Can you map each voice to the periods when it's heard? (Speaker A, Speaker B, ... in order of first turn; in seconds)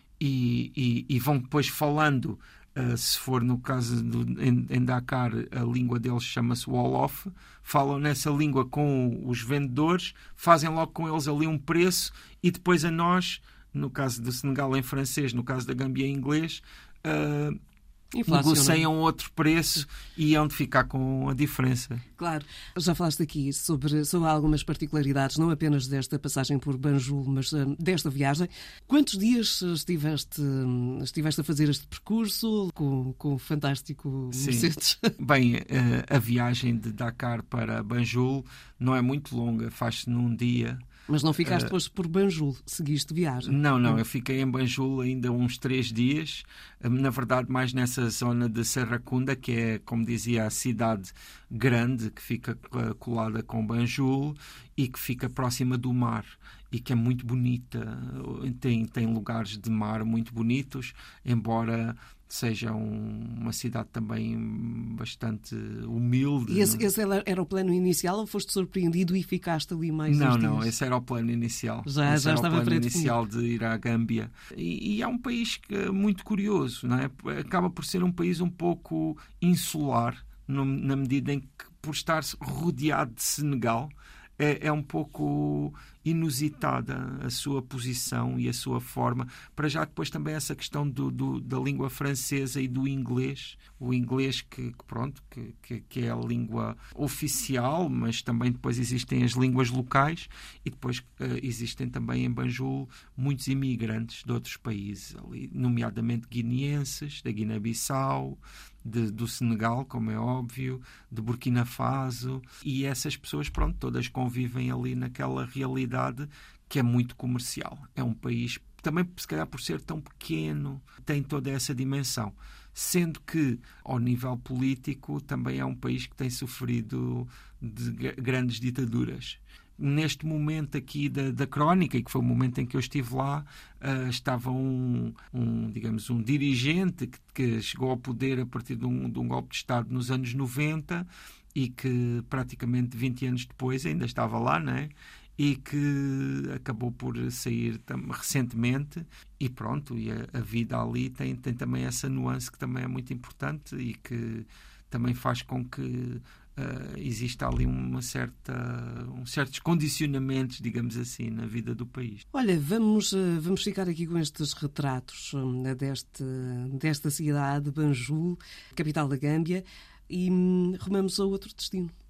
Speaker A: 0.2-17.6, 18.3-22.0, 34.3-40.8, 41.4-41.7, 43.4-66.8, 70.1-162.2
Speaker B: 18.1-18.9, 22.2-35.1, 41.1-44.0, 66.5-70.7, 71.8-73.2, 162.3-171.9